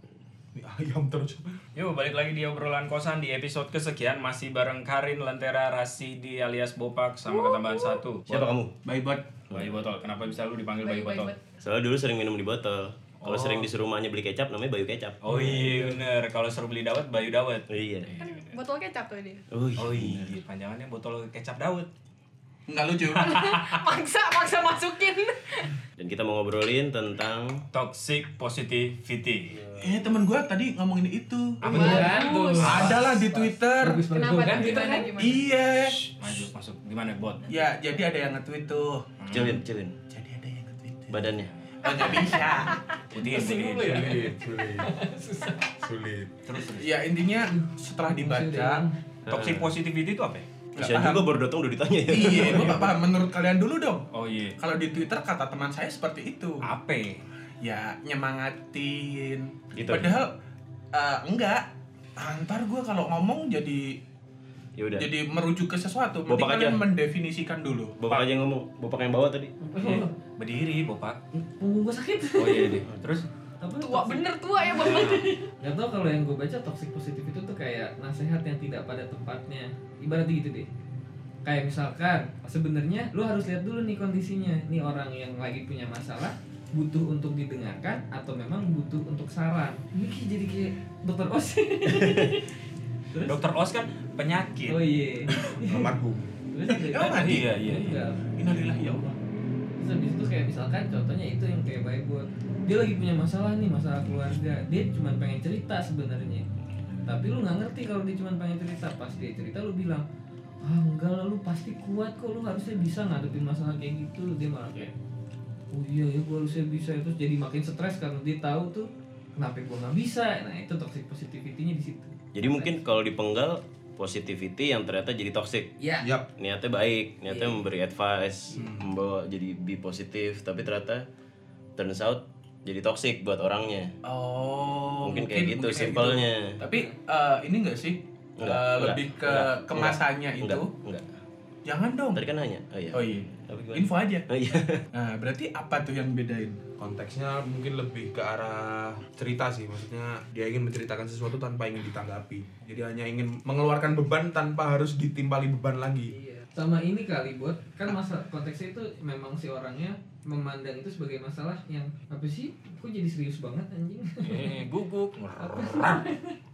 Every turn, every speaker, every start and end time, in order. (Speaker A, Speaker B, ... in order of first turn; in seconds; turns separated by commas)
Speaker A: 0.5-1.6, Speaker B: 1.7-8.5, Speaker C: 8.3-8.7, Speaker D: 8.8-9.3, Speaker C: 9.5-9.8, Speaker B: 9.5-11.3, Speaker E: 10.8-11.4, Speaker C: 11.6-15.9, Speaker B: 13.2-13.7, Speaker B: 15.2-18.5, Speaker C: 17.7-18.1, Speaker E: 18.2-19.4, Speaker C: 19.5-20.4, Speaker B: 19.8-21.9, Speaker D: 22.7-23.3, Speaker E: 23.1-25.8, Speaker B: 23.2-23.8, Speaker C: 26.0-27.7, Speaker B: 27.7-29.5, Speaker C: 29.5-29.9, Speaker D: 29.8-34.1, Speaker B: 31.6-33.0, Speaker E: 31.6-32.9, Speaker F: 31.7-35.1, Speaker E: 34.1-35.5, Speaker B: 34.5-34.8, Speaker D: 35.1-36.0, Speaker B: 35.8-37.5, Speaker D: 37.5-39.1, Speaker B: 39.2-39.6, Speaker C: 39.3-40.0, Speaker D: 40.1-41.2, Speaker C: 41.1-41.5, Speaker D: 41.8-42.8, Speaker E: 41.9-42.9, Speaker B: 43.1-44.2, Speaker F: 43.1-45.7, Speaker A: 43.8-44.9, Speaker A: 45.7-46.3, Speaker B: 46.4-47.0, Speaker D: 46.7-48.8, Speaker F: 47.4-49.0, Speaker C: 49.2-49.7, Speaker B: 49.3-50.5, Speaker D: 50.7-51.3, Speaker C: 50.8-52.9, Speaker D: 52.1-54.1, Speaker B: 52.4-52.8, Speaker B: 54.1-54.6, Speaker D: 54.6-56.7, Speaker B: 56.6-57.2, Speaker D: 57.6-60.3, Speaker C: 59.7-60.2, Speaker D: 60.9-64.0, Speaker C: 64.8-65.1, Speaker D: 64.9-67.9, Speaker C: 66.3-66.9, Speaker C: 68.0-69.5, Speaker F: 69.6-70.1, Speaker B: 69.8-71.2, Speaker F: 71.3-72.8, Speaker B: 72.3-73.3, Speaker C: 72.8-73.0, Speaker F: 73.6-80.7, Speaker E: 73.8-75.5, Speaker F: 81.4-92.5, Speaker F: 93.1-93.4, Speaker B: 93.2-94.8, Speaker F: 94.7-95.9, Speaker A: 95.7-96.3, Speaker F: 96.5-98.2, Speaker D: 96.7-97.6, Speaker B: 97.0-98.0, Speaker D: 98.4-99.2, Speaker F: 99.8-106.4, Speaker F: 107.0-110.0, Speaker F: 110.6-114.9, Speaker F: 115.7-122.8, Speaker C: 122.3-125.7, Speaker F: 125.8-126.1, Speaker A: 126.0-126.3, Speaker C: 126.4-131.1, Speaker F: 127.2-127.6, Speaker A: 128.5-128.9, Speaker C: 131.8-133.9, Speaker D: 134.0-140.7, Speaker C: 135.0-136.6, Speaker C: 138.4-141.1, Speaker D: 141.6-142.2, Speaker C: 142.1-144.8, Speaker D: 142.9-144.2, Speaker D: 144.9-146.6, Speaker A: 146.8-156.1, Speaker F: 156.1-164.6, Speaker B: 164.2-166.0, Speaker F: 165.4-166.3